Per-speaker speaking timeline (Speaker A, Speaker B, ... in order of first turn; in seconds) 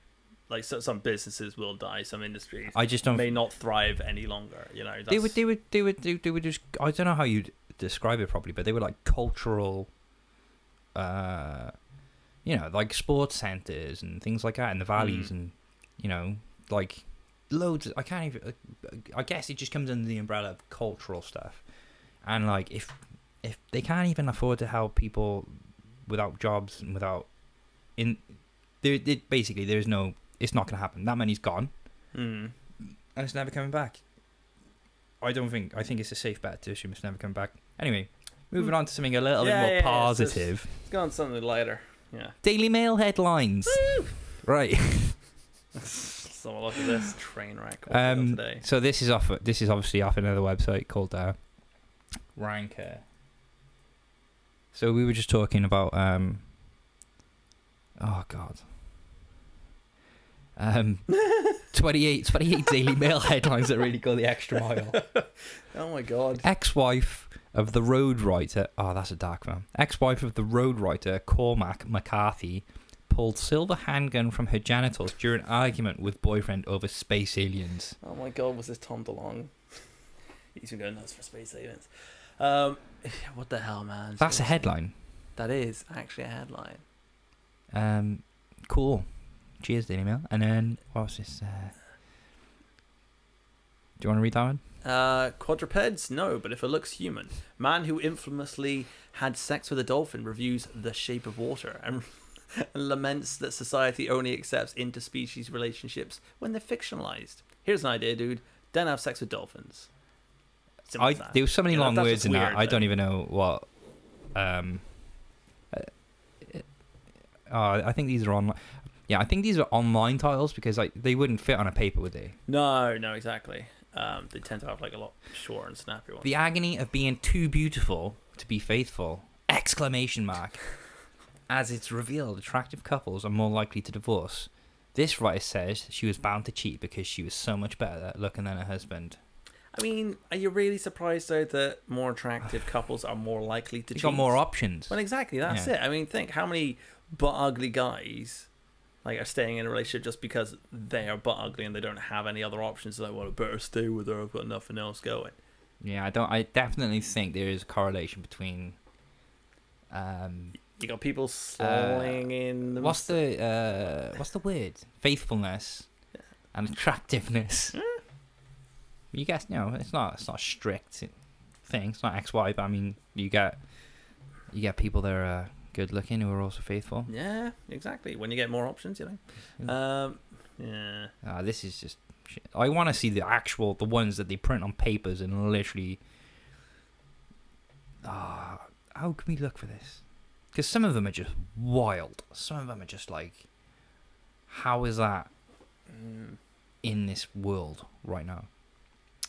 Speaker A: 0.5-5.4, 15.0-15.3, 32.1-32.5, 39.4-42.4, 43.7-44.1, 45.7-48.6, 61.2-61.5, 64.6-66.5, 78.0-79.8, 80.5-84.7, 85.4-86.8, 94.8-109.9, 110.9-112.9, 122.5-126.3, 139.7-144.4, 144.9-148.5, 149.0-155.4, 160.7-163.2, 167.7-168.0, 177.1-181.1, 195.9-196.4
Speaker B: 2.7-3.3, 5.1-9.9, 10.9-11.7, 12.4-21.6, 22.2-25.5, 26.1-27.3, 28.0-28.2, 28.8-31.7, 33.1-34.0, 35.2-40.7, 42.4-43.8, 44.4-45.2, 47.9-51.4, 52.3-53.0, 54.7-56.5, 58.0-58.7, 60.6-65.0, 66.4-78.0, 84.2-84.9, 87.7-89.1, 89.6-91.7, 94.0-94.6, 110.9-113.7, 114.3-114.9, 115.7-116.7, 117.5-122.4, 126.2-130.6, 131.5-139.2, 143.9-145.7, 155.8-158.8, 159.9-160.6, 161.6-165.9, 166.5-167.8, 169.1-171.1, 171.6-173.6, 174.5-177.1, 181.2-186.0, 188.0-190.0, 190.5-193.4, 194.5-195.3, 196.8-198.5